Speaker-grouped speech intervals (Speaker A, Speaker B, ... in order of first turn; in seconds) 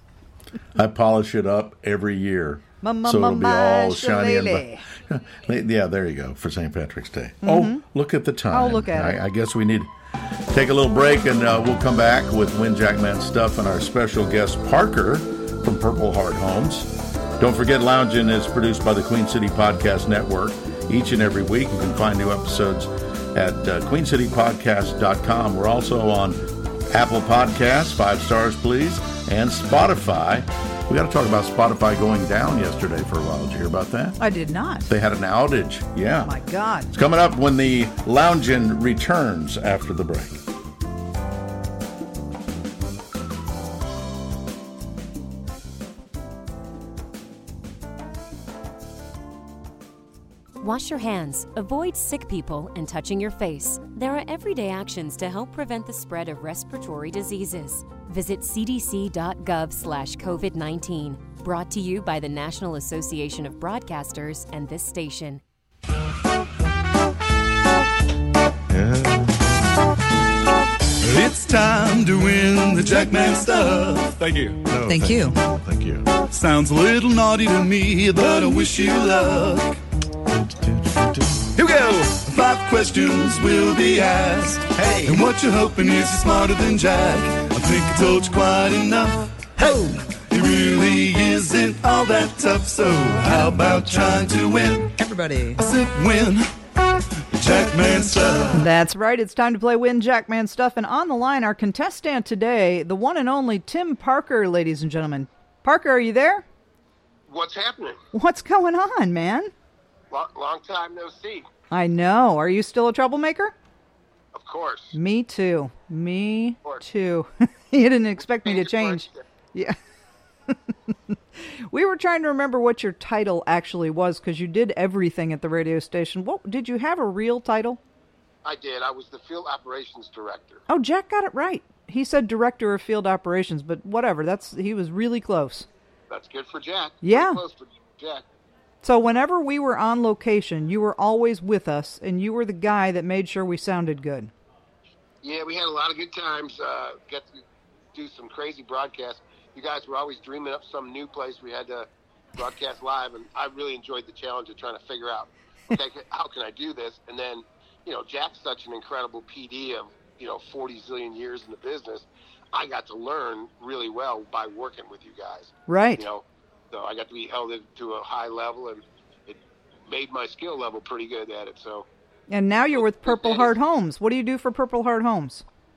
Speaker A: 0.7-9.9, 10.5-34.2, 34.9-36.4, 36.9-40.4, 68.7-69.5, 74.6-76.1, 80.4-81.3, 84.7-85.2
Speaker B: 2.8-4.8, 7.4-7.8, 8.5-9.2, 34.2-34.9, 36.2-36.9, 74.9-75.4, 95.0-95.6, 98.5-106.4, 108.1-109.5, 111.7-113.5, 114.9-119.8, 120.5-127.8, 130.7-135.7, 137.0-137.4, 138.8-144.3, 165.7-166.0, 172.3-175.4
Speaker C: 50.6-65.4
Speaker D: 71.0-74.6, 76.3-79.8, 81.4-94.9, 95.5-96.5, 97.3-98.6
Speaker E: 107.3-108.0, 110.1-111.5, 114.3-115.0, 118.4-119.2, 128.4-130.6, 136.1-138.2, 145.2-147.3, 147.9-171.8, 172.7-173.5